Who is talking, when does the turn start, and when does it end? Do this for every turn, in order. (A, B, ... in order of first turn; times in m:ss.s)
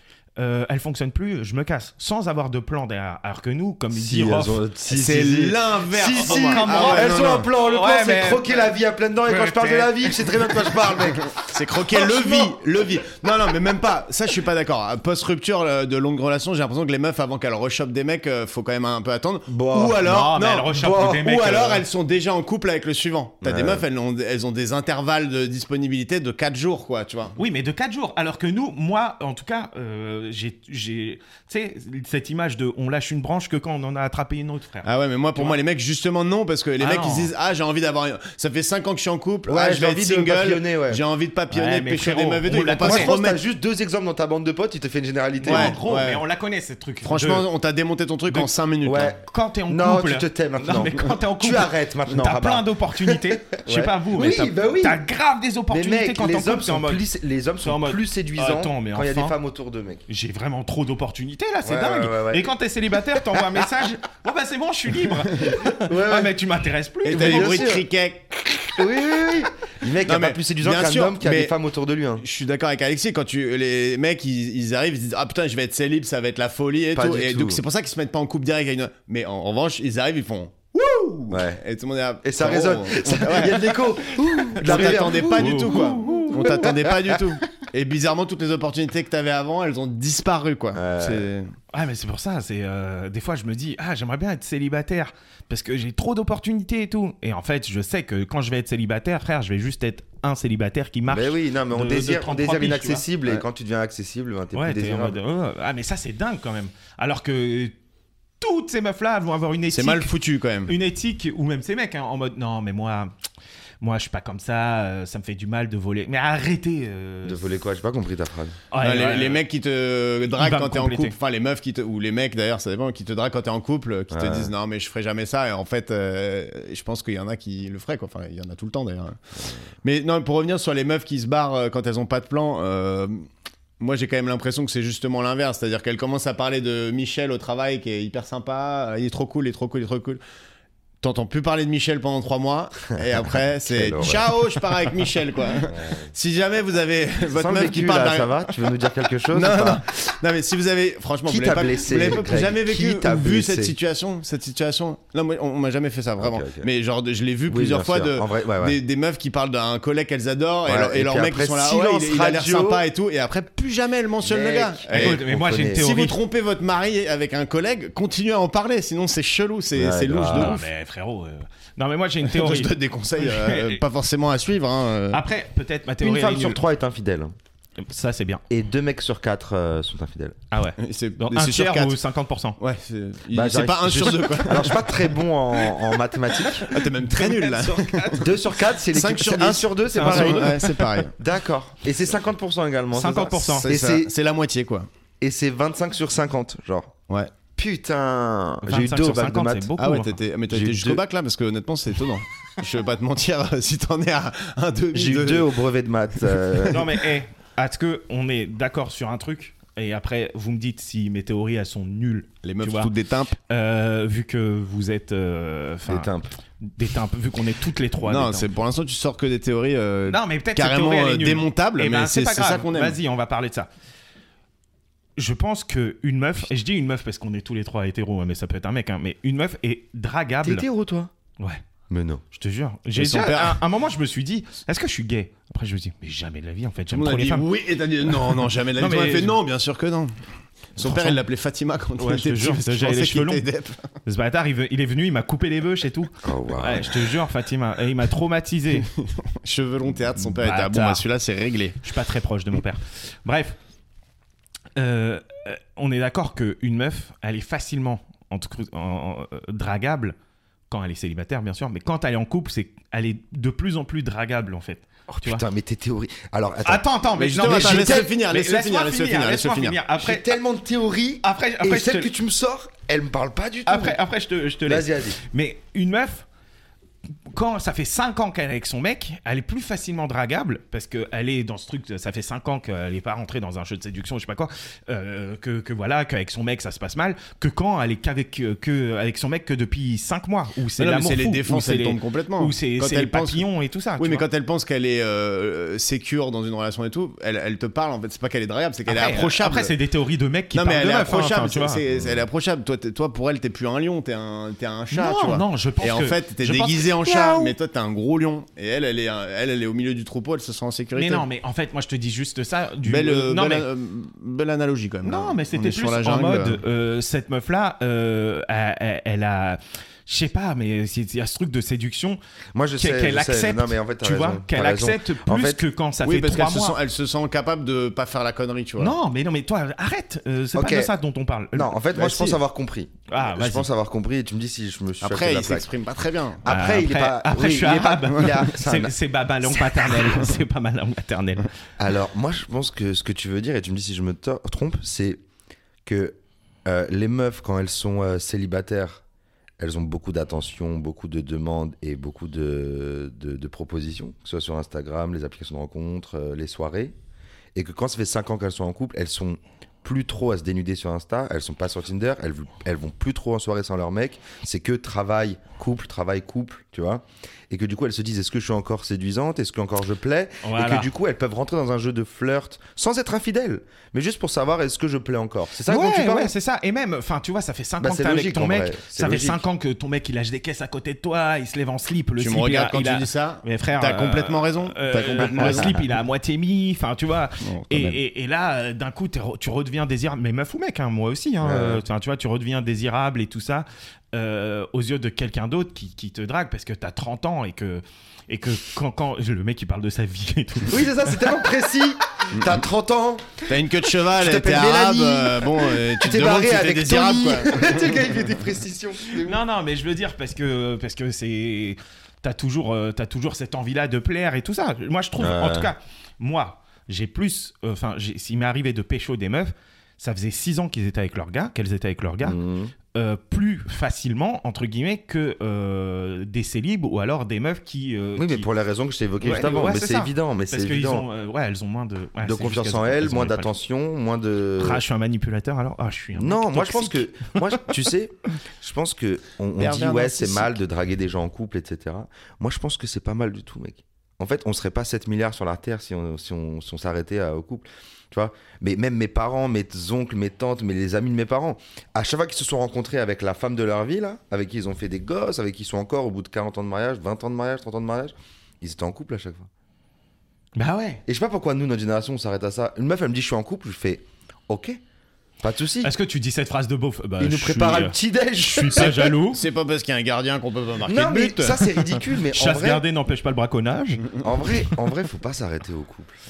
0:00.4-0:04.6 A
0:03.9-0:12.5 B
0:04.9-0:07.5 C
0:06.2-0:08.7 A
0:09.3-0:10.8 A
0:11.3-0:27.4 C
0:19.5-0:20.0 B
0:20.0-0:21.8 A
0:23.4-0:23.8 B
0:27.4-0:35.6 A
0:34.8-0:43.4 C
0:36.8-0:37.3 A
0:39.5-0:41.0 B
0:41.5-0:43.1 A
0:42.8-0:45.8 B
0:45.4-0:47.5 A
0:45.4-0:46.2 C
0:47.0-0:49.1 C
0:48.8-0:55.0 B
0:49.2-0:57.0 A
0:55.7-1:00.0 B
0:57.6-0:59.4 A
1:00.1-1:07.7 A
1:01.6-1:02.5 B
1:05.7-1:06.3 B
1:07.0-1:09.3 C
1:07.1-1:07.8 B
1:08.8-1:12.2 B
1:10.0-1:11.6 C
1:12.2-1:23.8 C
1:16.9-1:17.6 B
1:21.3-1:21.6 B
1:22.2-1:26.7 B
1:24.6-1:31.5 C
1:24.6-1:26.8 A
1:30.8-1:31.3 B
1:31.7-1:43.0 A
1:41.1-1:45.2 B
1:44.6-1:47.7 A
1:48.4-1:50.1 A
1:49.7-1:50.7 C
1:50.7-1:53.1 A
1:53.8-1:57.4 A
1:57.2-1:58.6 B
1:58.7-1:59.4 A
1:58.8-2:09.2 C
2:00.4-2:01.2 A
2:04.1-2:04.5 B
2:09.8-2:13.3 C
2:13.8-2:20.2 C
2:21.0-2:28.7 C
2:23.6-2:24.3 B
2:25.7-2:26.1 B
2:27.3-2:29.8 B
2:29.3-2:45.2 C
2:31.3-2:33.8 B
2:36.2-2:36.7 B
2:37.5-2:38.8 B
2:40.7-2:42.8 B
2:44.3-2:45.8 B
2:44.9-2:46.2 A
2:45.8-2:50.7 C
2:49.8-2:50.6 B
2:50.3-2:53.8 A
2:52.2-2:55.2 C
2:55.1-2:56.6 A
2:56.0-2:57.3 B
2:57.8-2:58.4 A
2:58.5-3:00.4 B
3:00.5-3:02.6 A
3:00.8-3:02.0 C
3:02.6-3:05.1 C
3:03.3-3:06.7 B
3:06.6-3:08.3 C
3:06.6-3:08.3 A
3:08.2-3:10.6 B
3:08.9-3:11.1 C
3:09.9-3:11.0 A
3:11.2-3:14.1 B
3:12.9-3:13.7 A
3:13.6-3:14.9 C
3:15.2-3:16.9 B
3:17.6-3:19.7 B
3:18.6-3:20.2 A
3:19.8-3:25.6 C
3:20.5-3:21.0 B
3:24.9-3:26.8 B
3:26.3-3:26.9 C
3:26.7-3:32.9 A
3:32.4-3:33.4 C
3:33.5-3:36.1 A
3:35.9-3:36.3 B
3:36.8-3:38.5 A
3:38.1-3:43.0 C
3:40.1-3:43.7 A
3:45.2-3:50.7 A
3:50.4-3:51.1 B
3:51.9-3:52.2 B
3:52.3-3:57.5 A
3:53.0-3:53.6 C
3:56.9-4:00.2 C
3:58.4-3:59.4 A
4:00.8-4:03.9 C
4:00.8-4:01.2 A
4:02.0-4:03.4 A
4:04.0-4:08.9 A
4:06.2-4:07.0 B
4:08.8-4:11.8 C
4:10.2-4:11.0 A
4:11.8-4:13.6 A
4:14.8-4:20.2 A
4:20.7-4:25.4 A
4:25.1-4:26.9 B
4:26.6-4:30.4 A
4:27.2-4:29.8 C
4:27.4-4:28.1 B
4:30.0-4:34.0 B
4:31.2-4:32.1 A
4:33.7-4:36.2 A
4:34.7-4:35.2 B
4:37.3-4:54.3 A
4:50.8-4:53.5 C
4:54.0-4:59.7 C
4:58.9-5:01.8 A
5:00.5-5:11.3 C
5:01.9-5:02.2 B
5:04.9-5:07.5 A
5:11.0-5:13.7 A
5:12.8-5:16.6 C
5:15.0-5:22.2 A
5:22.6-5:25.6 B
5:22.8-5:26.8 A
5:26.0-5:29.0 C
5:28.8-5:31.7 A
5:30.6-5:30.9 B
5:31.5-5:35.7 B
5:31.9-5:32.4 C
5:33.1-5:33.7 A
5:35.0-5:36.5 C
5:36.4-5:38.9 B
5:36.5-5:41.5 A
5:41.8-5:45.2 B
5:45.8-5:49.0 B
5:49.6-5:56.9 B
5:57.6-6:16.3 B
6:10.4-6:10.9 A
6:15.7-6:41.3 A
6:17.8-6:19.4 B
6:22.2-6:25.9 C
6:27.4-6:28.0 C
6:31.4-6:31.8 B
6:40.7-6:43.5 B
6:43.5-6:48.1 C
6:44.0-6:49.4 B
6:49.2-7:02.4 A
6:55.2-6:55.7 B
7:02.2-7:02.7 B
7:02.9-7:08.5 A
7:08.2-7:11.1 B
7:09.2-7:13.5 A
7:12.2-7:14.8 B
7:14.6-7:17.6 A
7:16.2-7:39.5 B
7:19.6-7:20.6 C
7:40.6-7:41.0 A
7:41.1-7:44.8 B
7:45.4-7:45.9 B
7:45.8-7:49.4 A
7:47.2-7:49.1 B
7:48.8-7:51.7 C
7:50.9-7:52.8 B
7:52.2-7:54.2 A
7:54.2-7:56.1 B